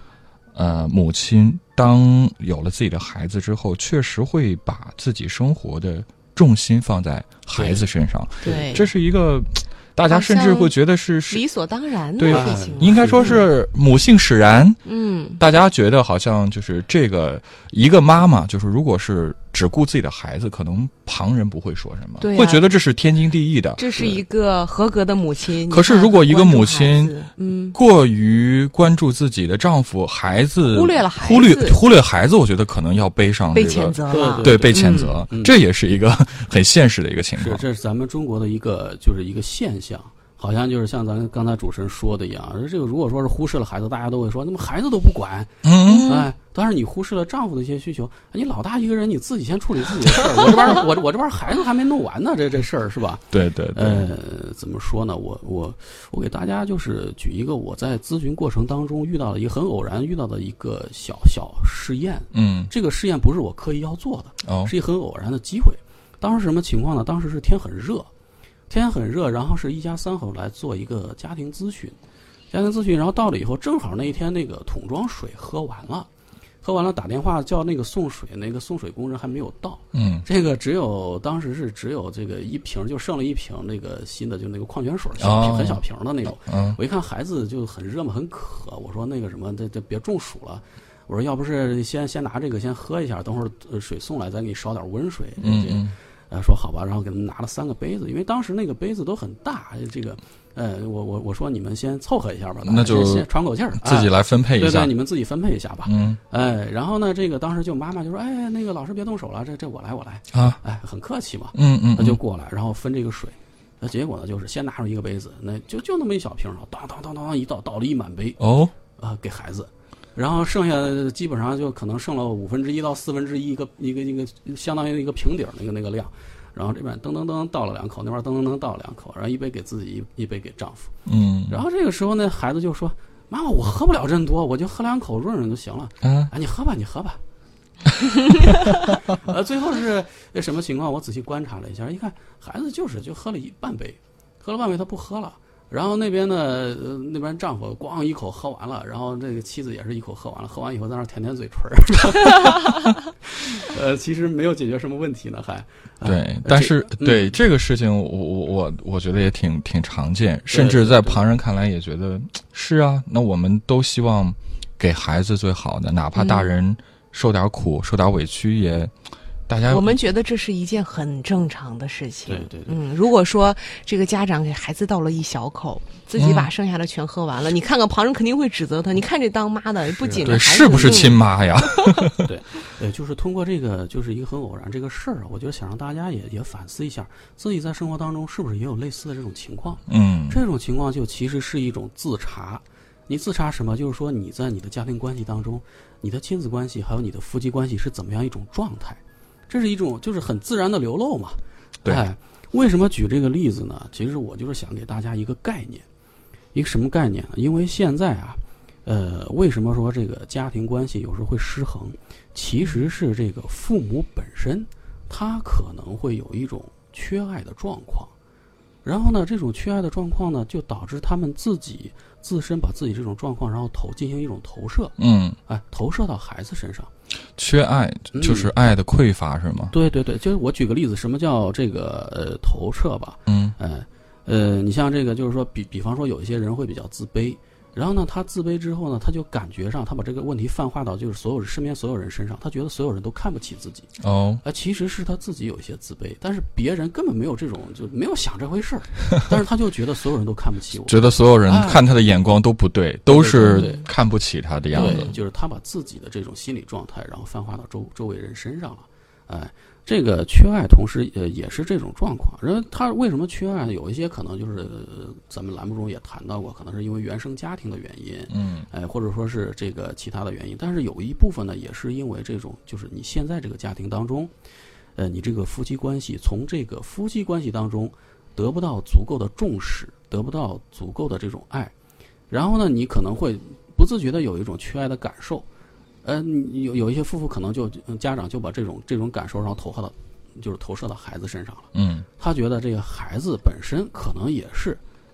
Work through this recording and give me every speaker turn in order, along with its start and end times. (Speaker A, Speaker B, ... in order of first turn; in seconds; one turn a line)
Speaker A: 0.5-11.4
Speaker B: 7.5-7.8
Speaker C: 8.4-8.9
Speaker C: 10.1-10.7
Speaker C: 11.3-13.4
Speaker A: 12.2-23.8
Speaker B: 12.3-13.4
Speaker C: 14.9-15.4
Speaker C: 22.2-22.7
Speaker C: 23.8-27.8
Speaker A: 25.7-27.2
Speaker A: 27.7-37.6
Speaker C: 30.7-31.8
Speaker C: 33.5-35.1
Speaker B: 34.1-35.6
Speaker B: 37.4-68.1
Speaker A: 45.6-46.1
Speaker C: 45.9-46.3
Speaker A: 53.3-54.1
Speaker A: 62.3-62.7
Speaker A: 64.5-64.7
Speaker B: 68.7-72.0
Speaker B: 72.5-76.1
Speaker B: 76.6-118.4
Speaker A: 79.9-80.3
Speaker A: 85.2-85.8
Speaker A: 86.5-86.8
Speaker A: 95.4-96.0
Speaker A: 102.7-104.9
Speaker A: 105.8-106.2
Speaker A: 110.3-110.6
Speaker A: 111.5-112.2
Speaker A: 118.4-118.7
Speaker B: 119.0-130.9
Speaker A: 131.1-131.6
Speaker B: 131.5-137.2
Speaker A: 136.0-136.3
Speaker B: 138.5-157.4
Speaker A: 156.0-168.9
Speaker B: 160.5-161.2
Speaker C: 166.2-166.5
Speaker A: 169.5-170.0
Speaker C: 169.7-181.8
Speaker B: 172.3-172.8
Speaker A: 176.2-176.5
Speaker B: 180.0-181.1
Speaker A: 180.2-182.3
Speaker B: 182.2-205.9
Speaker A: 189.9-190.4
Speaker B: 206.5-218.1
Speaker B: 218.8-226.9
Speaker A: 225.0-225.4
Speaker A: 227.4-229.7
Speaker B: 228.1-228.6
Speaker B: 229.7-243.9
Speaker A: 233.3-233.6
Speaker A: 244.0-244.4
Speaker B: 244.4-251.9
Speaker A: 250.9-255.1
Speaker B: 253.1-253.8
Speaker C: 253.5-253.8
Speaker B: 254.7-274.3
Speaker C: 254.8-255.1
Speaker A: 268.3-268.7
Speaker B: 275.0-281.7
Speaker B: 282.3-285.5
Speaker B: 286.0-294.8
Speaker A: 291.7-292.1